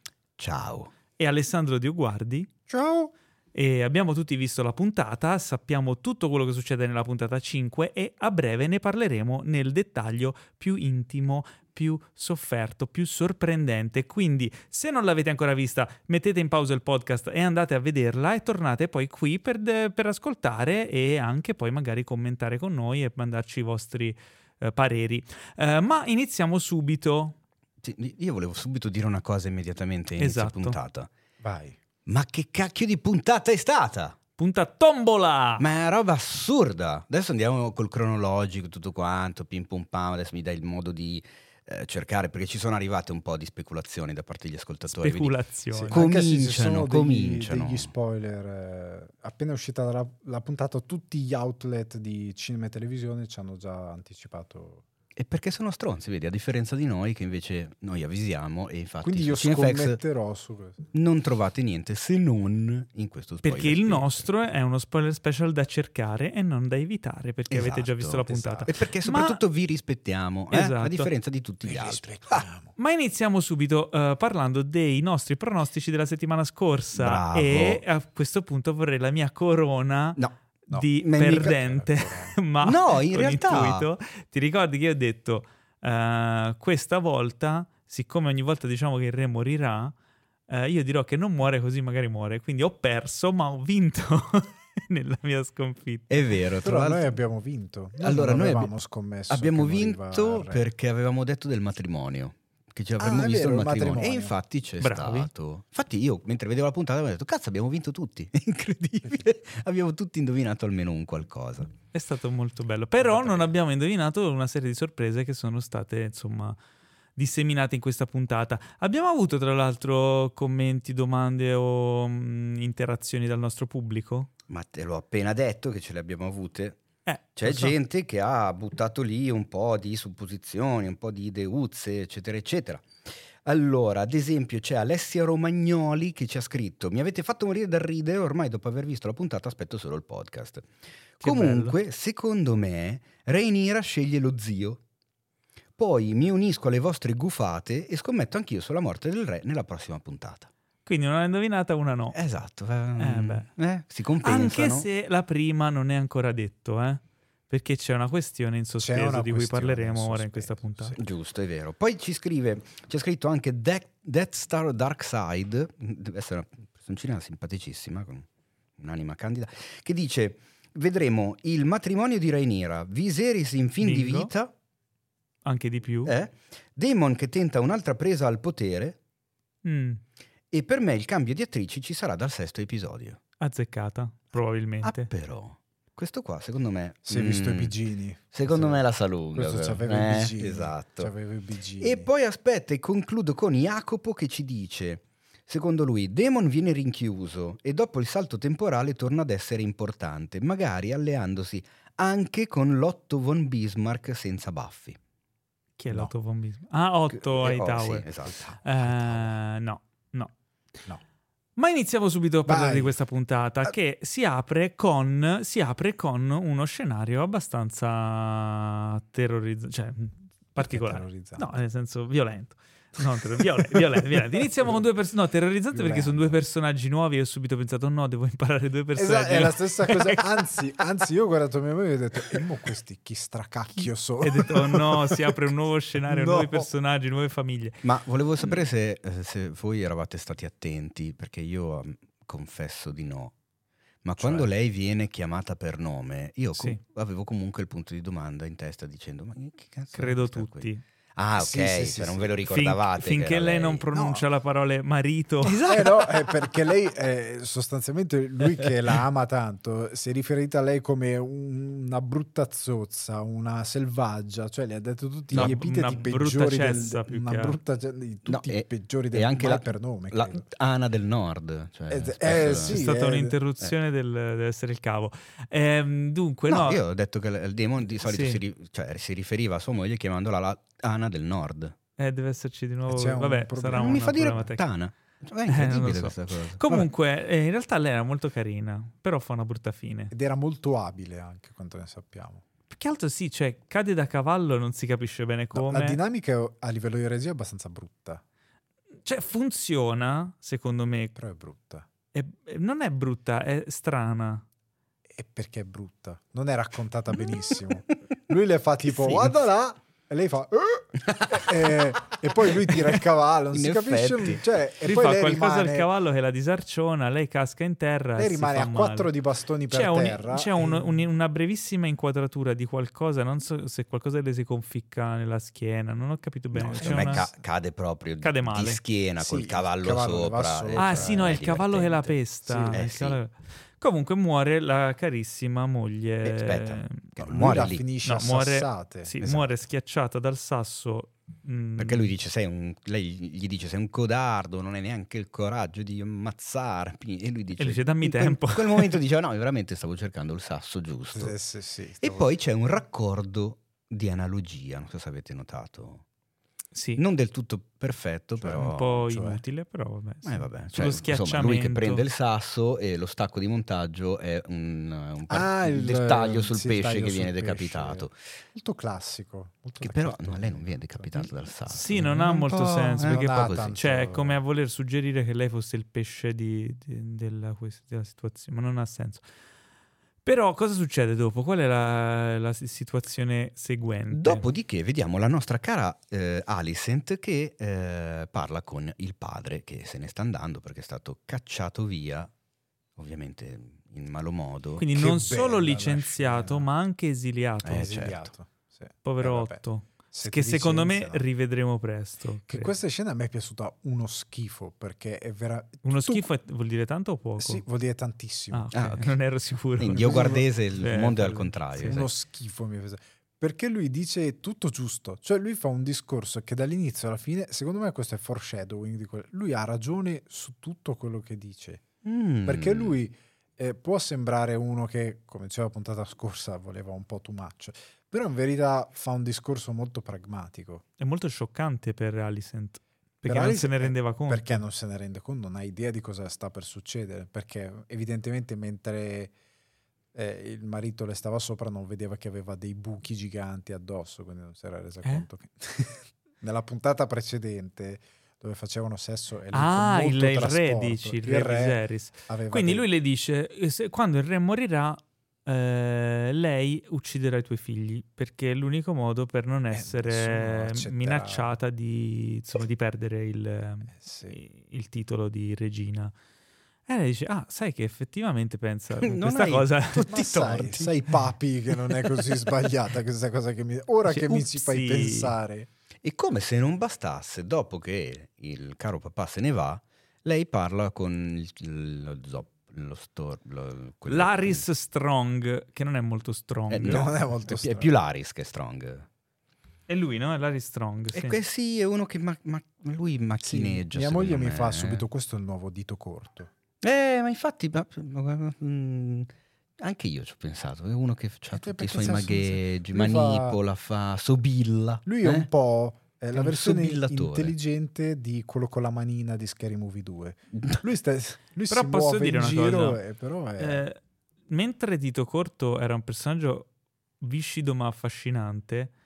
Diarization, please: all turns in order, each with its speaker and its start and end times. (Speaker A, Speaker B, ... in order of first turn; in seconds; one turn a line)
Speaker A: 0.4-0.9
Speaker B: 1.2-2.5
Speaker C: 2.7-3.1
Speaker B: 3.5-27.4
Speaker A: 27.8-31.1
Speaker B: 30.2-30.8
Speaker C: 31.4-31.8
Speaker A: 32.1-34.1
Speaker B: 34.4-35.6
Speaker A: 35.6-45.4
Speaker B: 44.9-46.0
Speaker C: 45.7-54.8
Speaker A: 45.9-47.9
Speaker A: 55.1-60.0
Speaker C: 59.0-60.8
Speaker A: 60.9-64.3
Speaker B: 63.4-69.4
Speaker A: 67.5-72.5
Speaker C: 68.3-68.7
Speaker B: 70.5-71.1
Speaker C: 71.6-72.7
Speaker B: 72.8-89.9
Speaker A: 76.9-77.8
Speaker C: 80.7-82.3
Speaker A: 81.0-81.6
Speaker A: 82.6-83.8
Speaker B: 90.5-96.3
Speaker A: 96.1-97.1
Speaker C: 96.6-100.6
Speaker A: 98.0-98.7
Speaker A: 99.3-111.7
Speaker C: 103.0-104.4
Speaker B: 104.8-105.3
Speaker B: 111.9-116.5
Speaker A: 113.0-113.4
Speaker B: 117.2-124.3
Speaker A: 124.5-126.8
Speaker B: 127.0-127.8
Speaker A: 127.3-132.9
Speaker A: 133.4-140.7
Speaker A: 141.2-144.8
Speaker B: 141.2-141.7
Speaker A: 145.8-150.5
Speaker B: 150.8-152.2
Speaker A: 152.1-154.9
Speaker B: 153.0-153.5
Speaker B: 154.2-160.9
Speaker C: 158.8-161.0
Speaker A: 161.0-168.2
Speaker A: 168.8-174.5
Speaker B: 173.8-174.3
Speaker B: 175.4-176.1
Speaker A: 176.0-179.0
Speaker B: 179.6-180.0
Speaker A: 180.5-183.2
Speaker B: 183.4-185.1
Speaker A: 184.8-187.8
Speaker C: 187.1-188.8
Speaker A: 188.3-191.1
Speaker C: 189.3-192.1
Speaker A: 191.8-205.0
Speaker B: 205.8-208.1
Speaker A: 207.1-209.3
Speaker B: 208.6-210.3
Speaker B: 211.6-230.2
Speaker C: 212.4-212.9
Speaker C: 220.6-221.4
Speaker C: 225.7-226.4
Speaker C: 229.0-235.4
Speaker B: 234.2-237.8
Speaker A: 237.8-243.3
Speaker A: 244.0-253.9
Speaker C: 244.2-244.5
Speaker B: 249.9-250.8
Speaker C: 251.3-252.3
Speaker B: 252.4-256.0
Speaker C: 253.9-254.2
Speaker C: 255.6-270.5
Speaker A: 265.3-265.6
Speaker B: 265.3-267.6
Speaker A: 268.2-272.8
Speaker C: 271.9-273.4
Speaker B: 272.6-276.8
Speaker A: 276.5-281.7
Speaker B: 278.0-278.4
Speaker B: 282.0-284.6
Speaker C: 282.9-284.2
Speaker A: 283.7-286.6
Speaker B: 285.5-290.1
Speaker C: 290.1-292.4
Speaker B: 292.7-296.0
Speaker C: 295.5-298.2
Speaker B: 299.0-301.1
Speaker C: 301.1-301.9
Speaker B: 302.1-304.4
Speaker C: 305.1-315.9
Speaker A: 308.9-309.3
Speaker A: 311.1-311.5
Speaker A: 313.5-314.4
Speaker B: 314.8-319.1
Speaker C: 318.1-320.9
Speaker B: 319.7-327.3
Speaker A: 326.5-332.1
Speaker C: 326.7-327.3
Speaker B: 328.2-328.8
Speaker C: 329.2-331.7
Speaker B: 330.8-337.1
Speaker C: 332.4-332.8
Speaker A: 332.7-333.2
Speaker A: 336.2-337.8
Speaker C: 337.2-339.6
Speaker B: 338.0-342.1
Speaker A: 341.8-351.3
Speaker B: 347.6-349.0
Speaker C: 351.1-352.3
Speaker A: 352.0-356.0
Speaker B: 356.7-357.0
Speaker A: 357.0-358.9
Speaker C: 358.4-359.4
Speaker B: 358.6-362.1
Speaker A: 360.2-368.1
Speaker C: 365.3-372.0
Speaker A: 369.8-373.8
Speaker B: 371.7-379.2
Speaker C: 373.0-374.4
Speaker B: 380.2-384.4
Speaker A: 384.1-392.3
Speaker A: 392.9-394.9
Speaker B: 394.8-397.9
Speaker C: 394.9-396.7
Speaker A: 397.6-398.3
Speaker C: 397.7-401.2
Speaker B: 399.0-402.7
Speaker C: 402.5-406.2
Speaker B: 405.8-407.6
Speaker C: 407.4-408.7
Speaker B: 408.5-412.0
Speaker A: 408.7-409.1
Speaker A: 409.8-412.1
Speaker C: 410.0-410.5
Speaker C: 411.8-421.8
Speaker A: 422.0-422.9
Speaker C: 422.4-430.8
Speaker B: 431.0-434.6
Speaker C: 433.2-439.3
Speaker C: 440.1-452.9
Speaker B: 449.5-466.1
Speaker C: 459.7-461.5
Speaker C: 463.9-464.4
Speaker B: 466.9-470.1
Speaker A: 469.0-471.2
Speaker C: 470.1-475.7
Speaker A: 471.7-472.3
Speaker B: 474.0-475.3
Speaker A: 476.0-484.6
Speaker B: 484.1-487.0
Speaker A: 486.7-489.1
Speaker C: 486.8-487.9
Speaker B: 489.9-491.4
Speaker A: 491.1-495.0
Speaker C: 493.4-496.5
Speaker A: 496.8-505.5
Speaker C: 501.5-503.6
Speaker C: 505.1-513.9
Speaker A: 506.3-507.5
Speaker B: 511.7-513.0
Speaker B: 513.6-516.7
Speaker B: 517.2-518.9